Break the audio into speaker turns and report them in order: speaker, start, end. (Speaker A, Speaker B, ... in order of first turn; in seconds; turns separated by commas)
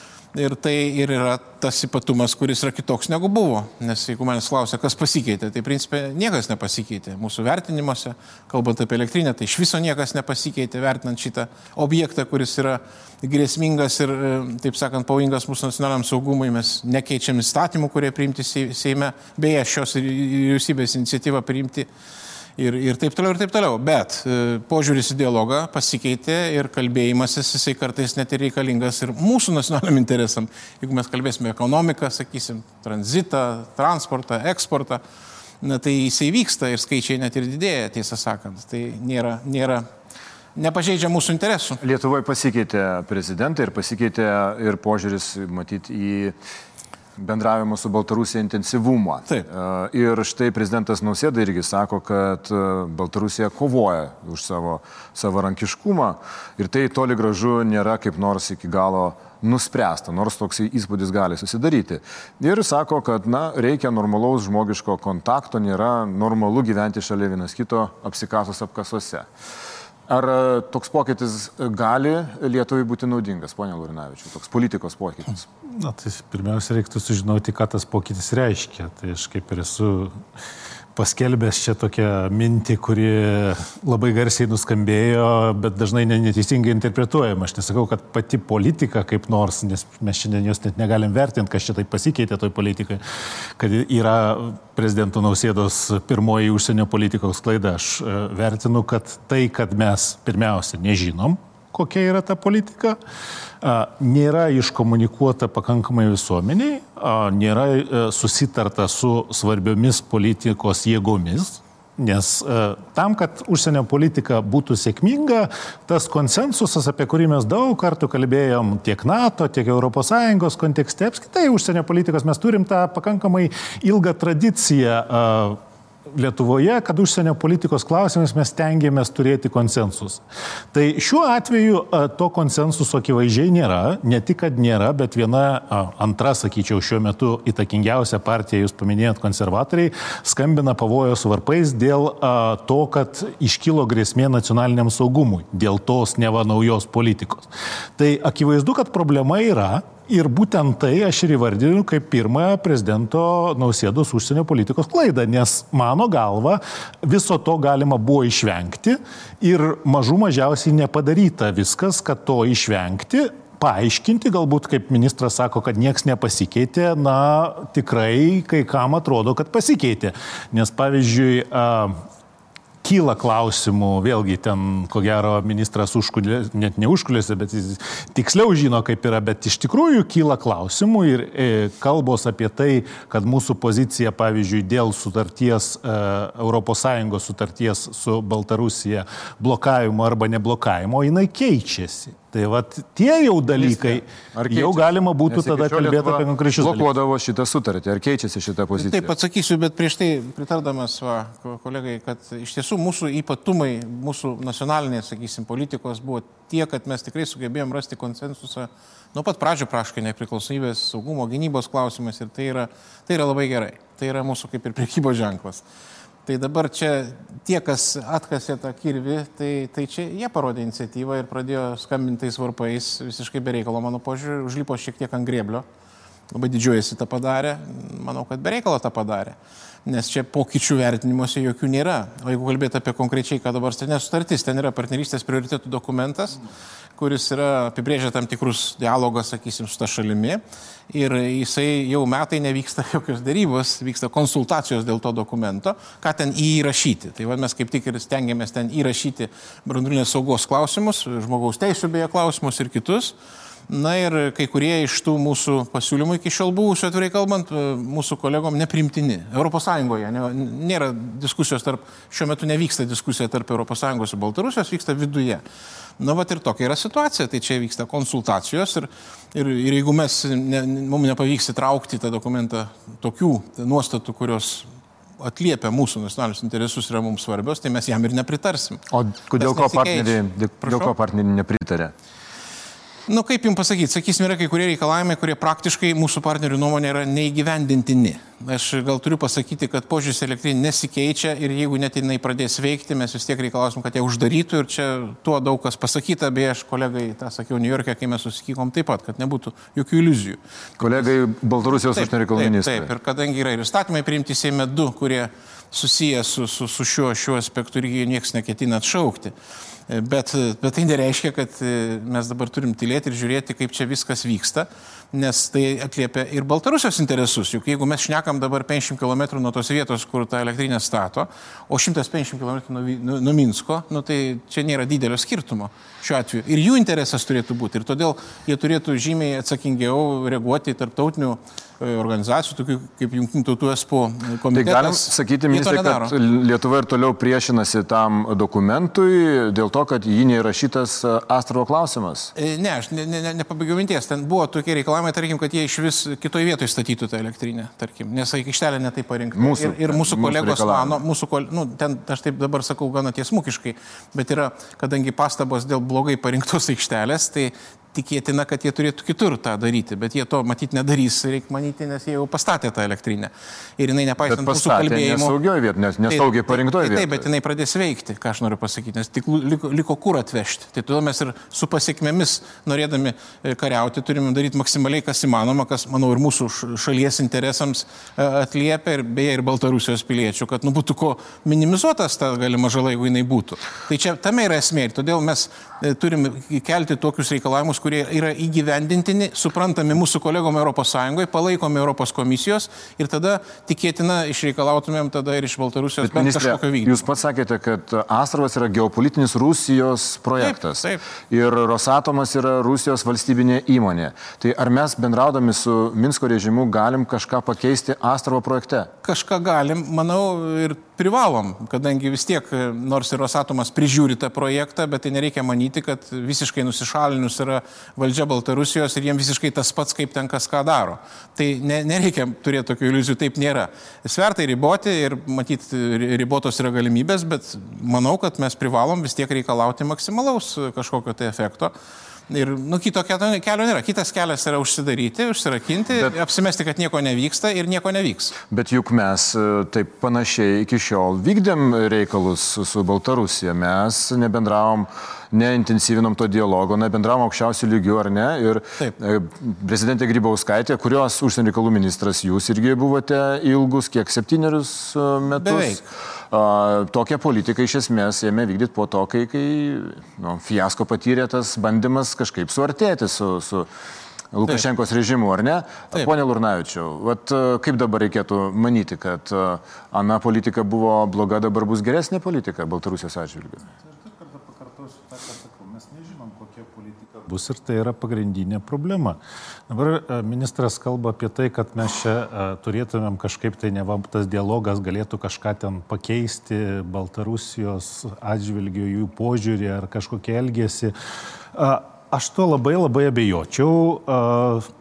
Speaker A: 0.3-21.9, Speaker A: 22.6-35.0, Speaker A: 35.6-39.9, Speaker A: 40.6-41.8, Speaker B: 41.8-46.4, Speaker B: 47.2-69.3, Speaker B: 70.1-75.5, Speaker C: 75.7-80.2, Speaker C: 81.0-93.0, Speaker C: 93.6-103.0, Speaker C: 103.6-130.2, Speaker C: 130.7-172.0, Speaker C: 172.8-196.9, Speaker B: 193.6-199.1, Speaker A: 198.8-215.6, Speaker A: 216.3-225.7, Speaker A: 226.3-236.4, Speaker A: 237.0-253.2, Speaker A: 253.7-265.4, Speaker A: 266.0-274.7, Speaker A: 275.2-278.8, Speaker B: 278.9-281.9, Speaker A: 279.4-280.9, Speaker A: 283.1-300.4, Speaker B: 300.8-302.9, Speaker A: 301.9-309.3, Speaker A: 309.9-336.1, Speaker B: 334.5-342.3, Speaker A: 342.4-365.4, Speaker B: 349.4-351.0, Speaker B: 364.3-367.2, Speaker A: 366.1-397.1, Speaker B: 396.0-408.9, Speaker A: 400.4-401.0, Speaker A: 409.0-431.7, Speaker A: 432.3-438.4, Speaker B: 438.5-463.7, Speaker A: 455.4-455.8, Speaker B: 464.3-473.7, Speaker C: 473.9-479.2, Speaker C: 479.7-490.9, Speaker C: 491.5-494.7